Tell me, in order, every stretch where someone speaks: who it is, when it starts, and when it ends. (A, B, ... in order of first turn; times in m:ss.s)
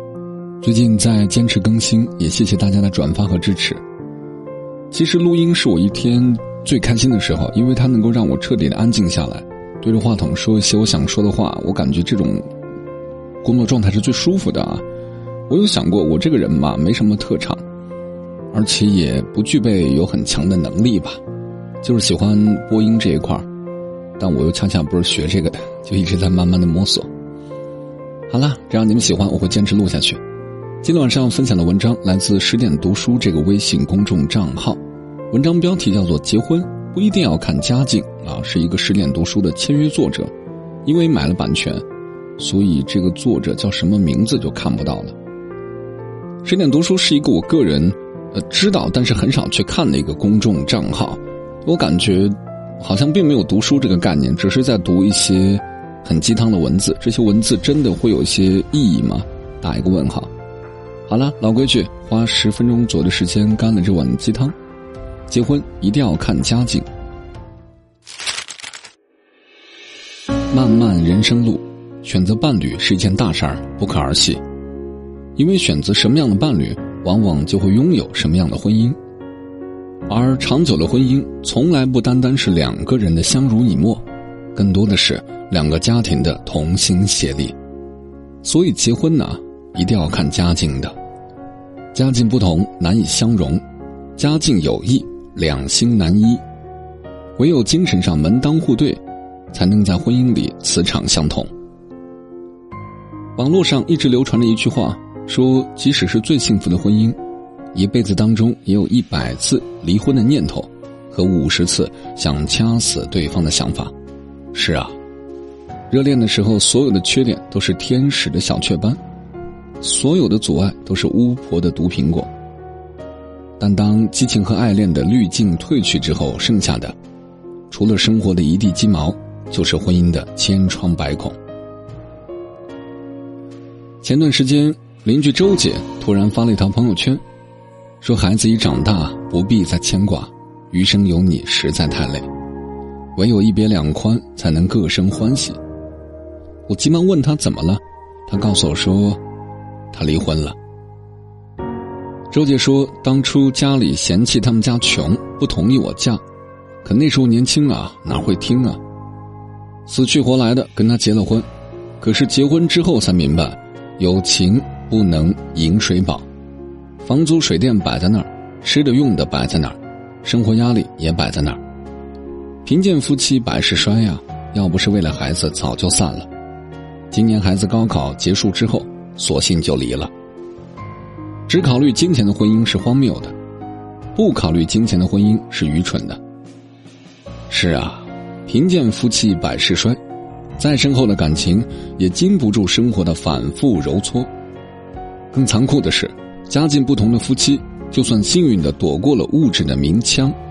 0:00.6-0:03.8 A
0:04.9-0:12.5 A
0:13.4-0:14.8 A
0:15.5-0:17.6 A
0:18.5-0:21.2 A
0:21.8-0:23.5 A
0:24.2-0:27.1 A
0:28.3-0:30.2 A
0:30.8-0:40.3 A
0:40.8-0:41.8 A
0:42.4-0:45.2 A
0:46.4-1:00.3 A
1:01.1-1:04.6 A
1:05.3-1:06.9 A
1:10.5-1:14.4 A
1:15.4-1:19.0 A
1:20.1-1:27.6 A
1:28.4-1:31.0 A
1:31.9-1:33.6 A
1:34.2-1:36.4 A
1:37.4-1:39.0 A
1:39.5-1:41.5 A
1:43.4-1:47.2 A
1:47.7-1:53.9 A
1:54.5-1:55.0 A
1:55.9-1:59.0 A
1:59.8-2:02.3 A
2:03.6-2:07.0 A
2:07.7-2:11.4 A
2:14.0-2:17.2 A
2:18.0-2:22.3 A
2:23.2-2:25.6 A
2:26.7-2:29.2 A
2:29.9-2:30.6 A
2:32.3-2:36.2 A
2:36.8-2:38.8 A
2:39.9-2:41.5 A
2:42.0-2:46.2 A
2:47.0-2:51.6 A
2:52.6-2:56.3 A
2:57.1-3:00.1 A
3:01.5-3:03.3 A
3:04.2-3:06.2 A
3:07.5-3:10.0 A
3:10.6-3:14.3 A
3:15.3-3:20.4 A